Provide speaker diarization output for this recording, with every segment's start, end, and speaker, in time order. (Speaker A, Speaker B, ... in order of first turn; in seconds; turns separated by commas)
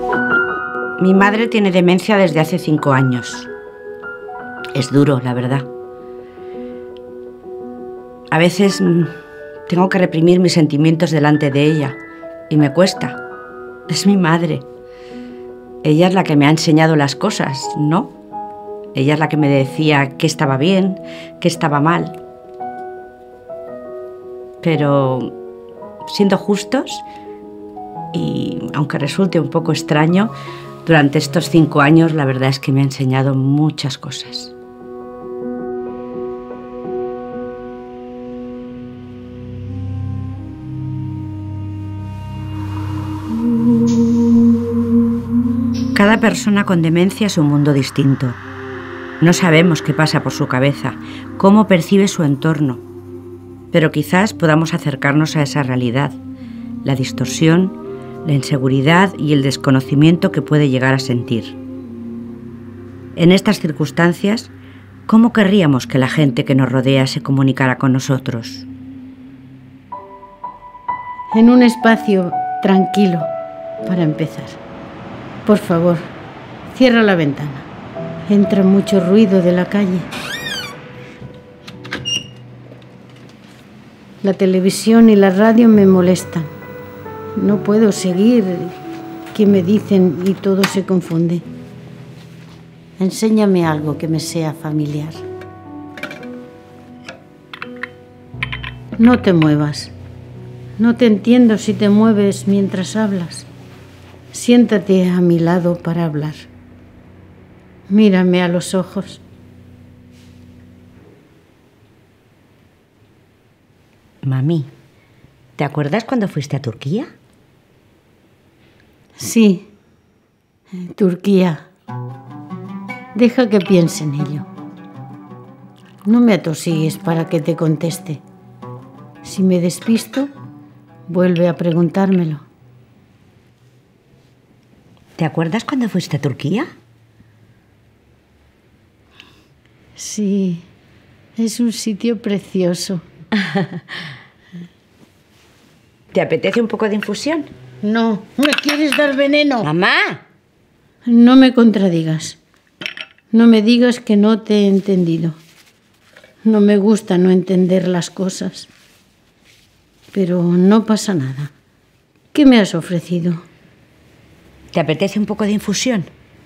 Speaker A: 1.0-3.5, Speaker A: 4.7-5.7, Speaker A: 8.3-9.1, Speaker A: 9.7-12.0, Speaker A: 12.5-13.2, Speaker A: 13.9-14.6, Speaker A: 15.8-18.1, Speaker A: 18.9-22.2, Speaker A: 24.6-25.3, Speaker A: 26.1-27.0, Speaker A: 28.1-30.3, Speaker A: 30.8-34.5, Speaker A: 45.9-48.4, Speaker A: 49.2-52.8, Speaker A: 53.7-56.2, Speaker A: 56.8-61.5, Speaker A: 63.1-64.5, Speaker A: 65.1-68.7, Speaker B: 71.3-73.3, Speaker B: 73.8-74.6, Speaker B: 75.5-76.0, Speaker B: 76.7-77.7, Speaker B: 78.3-80.1, Speaker B: 84.2-86.5, Speaker B: 87.3-88.7, Speaker B: 89.3-91.5, Speaker B: 93.0-95.2, Speaker B: 99.0-99.9, Speaker B: 100.8-103.5, Speaker B: 104.3-106.5, Speaker B: 107.9-109.2, Speaker A: 114.2-114.7, Speaker A: 115.6-117.1, Speaker B: 119.2-119.7, Speaker B: 120.7-121.6, Speaker B: 123.1-124.5, Speaker B: 126.0-128.2, Speaker B: 129.2-130.3, Speaker B: 131.1-132.4, Speaker A: 135.2-136.7, Speaker B: 139.9-140.6, Speaker B: 141.3-143.0, Speaker A: 146.1-147.5, Speaker B: 147.8-149.7, Speaker A: 149.6-150.2, Speaker B: 151.0-152.4, Speaker B: 153.3-155.3, Speaker B: 156.4-158.7, Speaker B: 160.1-161.5, Speaker B: 162.3-163.4, Speaker A: 164.7-166.1